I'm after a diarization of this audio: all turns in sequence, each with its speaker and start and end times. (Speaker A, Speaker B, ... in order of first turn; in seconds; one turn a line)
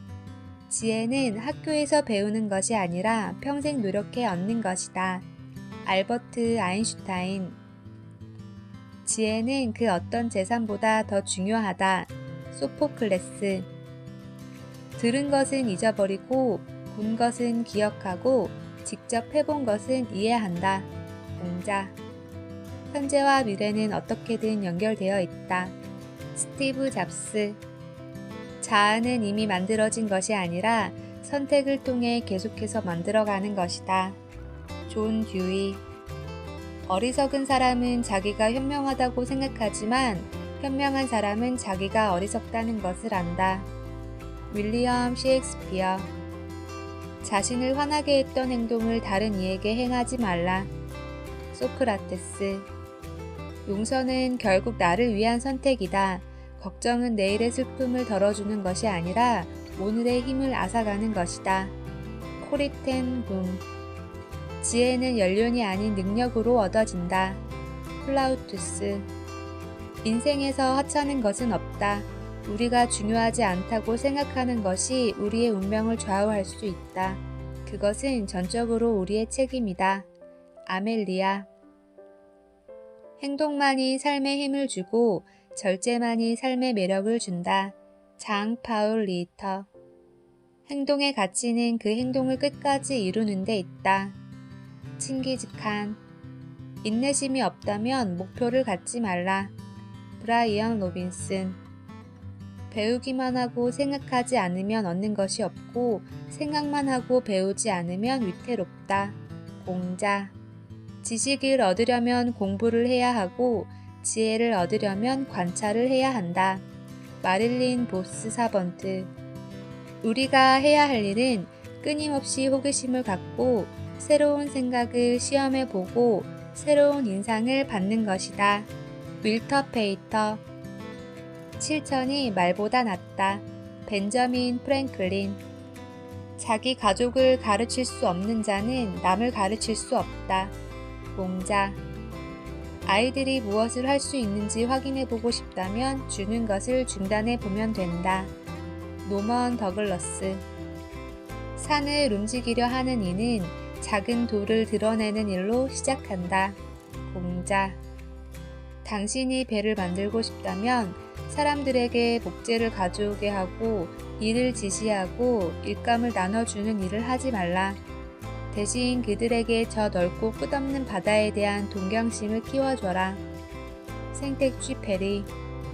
Speaker A: 0.7-5.2
Speaker A: 5.8-7.6
Speaker A: 9.1-13.7
Speaker A: 15.0-22.0
Speaker A: 22.9-25.8
Speaker A: 26.4-27.6
Speaker A: 28.6-34.2
Speaker A: 34.9-35.8
Speaker A: 36.9-43.7
Speaker A: 44.5-46.1
Speaker A: 47.2-50.7
Speaker A: 51.5-52.7
Speaker A: 53.7-61.8
Speaker A: 62.4-63.6
Speaker A: 64.6-67.4
Speaker A: 68.0-69.1
Speaker A: 70.0-80.1
Speaker A: 80.7-81.5
Speaker A: 83.2-89.7
Speaker A: 90.7-94.2
Speaker A: 95.0-96.0
Speaker A: 96.8-99.5
Speaker A: 100.2-101.6
Speaker A: 102.7-110.3
Speaker A: 111.0-116.6
Speaker A: 117.2-119.1
Speaker A: 120.0-128.7
Speaker A: 129.2-130.4
Speaker A: 131.6-135.4
Speaker A: 136.4-140.6
Speaker A: 141.2-141.8
Speaker A: 142.8-148.3
Speaker A: 149.0-150.4
Speaker A: 151.6-157.8
Speaker A: 158.8-167.8
Speaker A: 168.5-173.2
Speaker A: 174.1-175.3